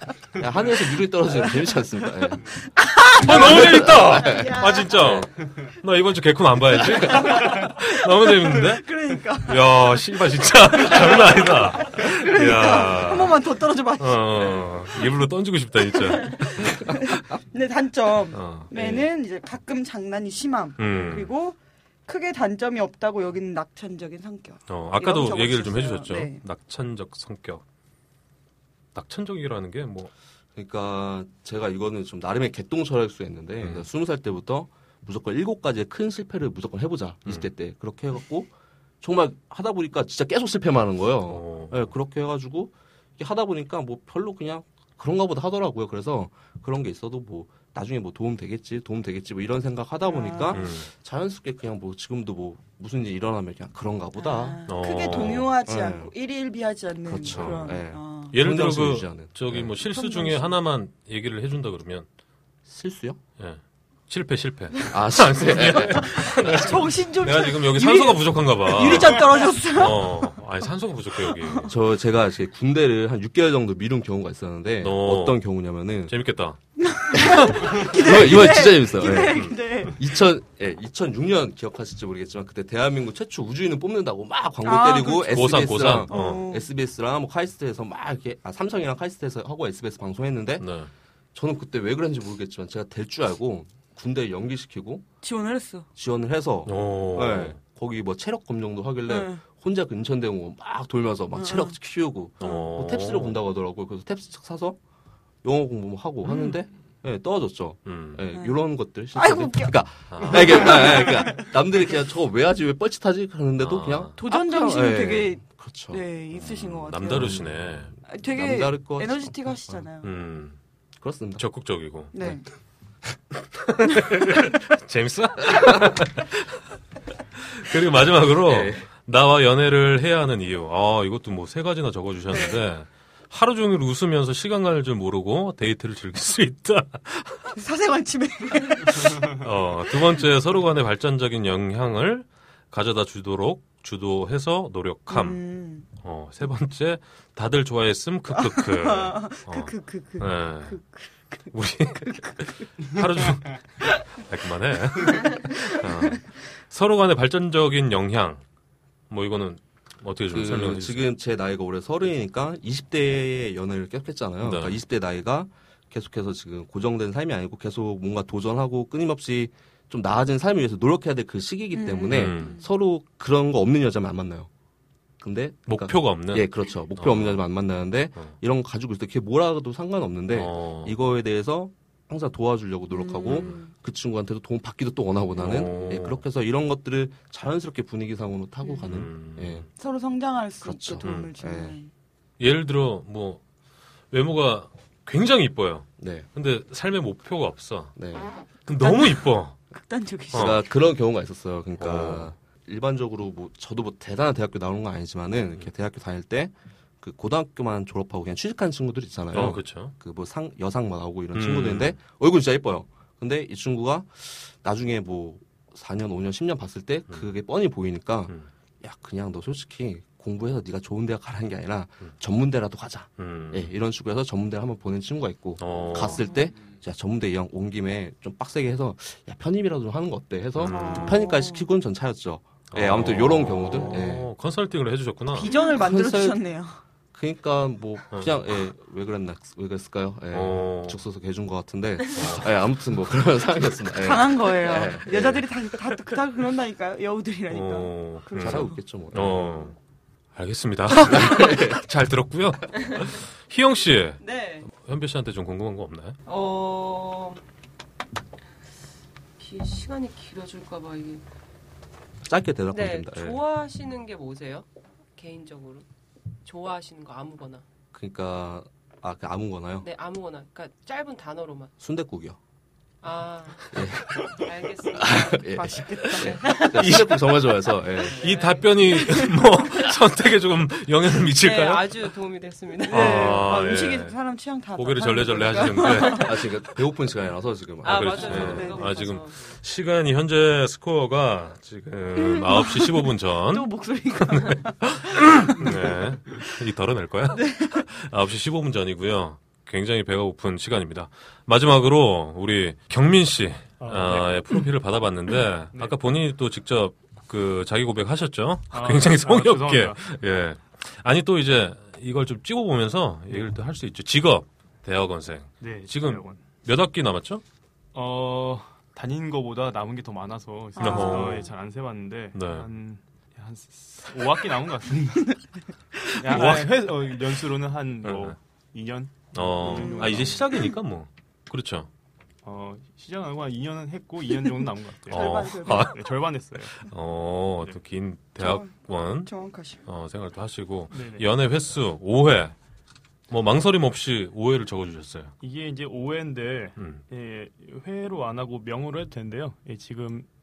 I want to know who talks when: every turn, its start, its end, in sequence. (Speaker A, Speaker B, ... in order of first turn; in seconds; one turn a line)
Speaker A: 0.4-2.6
Speaker B: 0.7-5.2
Speaker C: 3.2-13.4
Speaker A: 3.3-5.3
Speaker B: 6.8-10.1
Speaker B: 10.7-15.1
Speaker C: 14.0-17.1
Speaker B: 15.9-26.4
Speaker C: 18.3-19.1
Speaker C: 20.8-21.3
Speaker C: 24.7-27.6
Speaker C: 28.9-30.1
Speaker A: 30.6-56.1
Speaker C: 33.6-33.9
Speaker C: 41.3-41.9
Speaker B: 50.0-50.6
Speaker C: 50.5-50.9
Speaker B: 54.1-58.4
Speaker C: 54.6-55.6
Speaker A: 57.1-59.7
Speaker C: 57.2-57.8
Speaker C: 58.3-62.1
Speaker B: 59.8-60.6
Speaker A: 62.7-63.2
Speaker C: 63.4-71.7
Speaker A: 64.9-66.8
Speaker B: 65.6-70.4
Speaker B: 71.2-71.7
Speaker A: 71.7-76.1
Speaker C: 74.8-75.4
Speaker C: 76.1-76.6
Speaker B: 76.8-80.0
Speaker C: 77.5-78.6
Speaker A: 77.6-90.7
Speaker C: 79.1-79.6
Speaker B: 84.6-86.7
Speaker C: 85.3-86.4
Speaker C: 90.6-90.9
Speaker A: 91.3-95.0
Speaker B: 95.2-95.9
Speaker A: 95.9-104.8
Speaker C: 96.7-97.6
Speaker B: 99.1-99.4
Speaker B: 101.3-101.8
Speaker C: 102.4-103.4
Speaker B: 102.4-102.7
Speaker A: 105.4-116.0
Speaker B: 106.3-106.6
Speaker C: 107.9-108.2
Speaker B: 108.3-111.5
Speaker C: 110.1-110.6
Speaker C: 113.6-114.1
Speaker B: 114.2-117.5
Speaker C: 116.3-117.9
Speaker A: 117.1-119.5
Speaker B: 118.1-120.1
Speaker C: 120.0-120.6
Speaker A: 121.0-121.4
Speaker C: 121.4-122.2
Speaker B: 122.1-122.4
Speaker C: 123.6-126.4
Speaker C: 127.4-137.5
Speaker A: 128.4-128.9
Speaker B: 137.5-139.3
Speaker C: 139.2-145.4
Speaker B: 145.1-145.9
Speaker C: 145.9-150.8
Speaker B: 148.3-153.0
Speaker C: 151.5-158.4
Speaker B: 155.0-156.2
Speaker C: 159.1-161.1
Speaker A: 160.3-174.5
Speaker C: 164.4-164.8
Speaker B: 171.7-172.7
Speaker C: 172.1-172.6
Speaker A: 175.2-189.7
Speaker C: 175.7-177.4
Speaker C: 180.3-180.9
Speaker B: 182.9-183.7
Speaker C: 183.3-183.6
Speaker C: 185.4-186.2
Speaker C: 188.9-189.7
Speaker B: 189.8-191.9
Speaker A: 190.6-191.8
Speaker C: 191.0-191.3
Speaker C: 192.4-193.4
Speaker C: 194.1-197.9
Speaker A: 196.0-196.3
Speaker A: 197.9-198.4
Speaker C: 198.6-199.6
Speaker B: 198.7-200.7
Speaker C: 200.3-200.6
Speaker A: 200.3-234.3
Speaker C: 201.8-202.3
Speaker C: 209.3-209.9
Speaker C: 211.3-212.0
Speaker C: 223.2-223.7
Speaker C: 225.6-226.3
Speaker B: 226.0-226.5
Speaker C: 230.6-231.2
Speaker B: 230.6-231.7
Speaker C: 232.7-235.5
Speaker B: 235.3-236.8
Speaker A: 235.6-236.4
Speaker A: 237.1-245.4
Speaker C: 240.3-241.0
Speaker C: 242.1-242.5
Speaker B: 243.9-248.8
Speaker C: 247.5-249.8
Speaker A: 248.4-249.7
Speaker C: 250.4-256.2
Speaker A: 251.0-251.8
Speaker D: 254.2-254.7
Speaker D: 256.3-257.4
Speaker D: 259.4-261.2
Speaker A: 262.3-263.4
Speaker D: 262.7-265.8
Speaker D: 266.4-267.6
Speaker A: 267.9-269.9
Speaker D: 269.8-271.7
Speaker A: 271.8-272.4
Speaker D: 273.0-275.6
Speaker A: 273.7-278.2
Speaker B: 275.5-276.4
Speaker D: 276.1-277.3
Speaker C: 276.8-277.2
Speaker D: 277.9-279.1
Speaker C: 278.2-282.1
Speaker B: 278.9-279.4
Speaker D: 281.4-283.4
Speaker B: 282.9-286.5
Speaker C: 282.9-284.2
Speaker C: 284.8-286.3
Speaker A: 286.1-288.7
Speaker D: 287.8-289.4
Speaker C: 287.8-293.7
Speaker B: 288.3-289.0
Speaker B: 292.1-296.4
Speaker C: 294.2-317.4
Speaker B: 297.3-297.9
Speaker E: 303.8-304.5
Speaker E: 308.7-310.1
Speaker E: 315.6-316.4
Speaker E: 317.9-325.4
Speaker B: 320.8-321.5
Speaker C: 320.8-321.5
Speaker C: 322.3-322.7
Speaker E: 326.1-330.4
Speaker C: 326.3-326.9
Speaker C: 328.0-328.4
Speaker C: 329.3-331.9
Speaker B: 329.6-330.8
Speaker E: 332.4-336.7
Speaker B: 335.1-335.9
Speaker C: 335.1-336.0
Speaker C: 336.7-339.3
Speaker B: 338.4-339.8
Speaker C: 339.8-342.5
Speaker E: 340.9-341.3
Speaker C: 343.3-345.3
Speaker E: 345.4-350.3
Speaker C: 346.8-347.0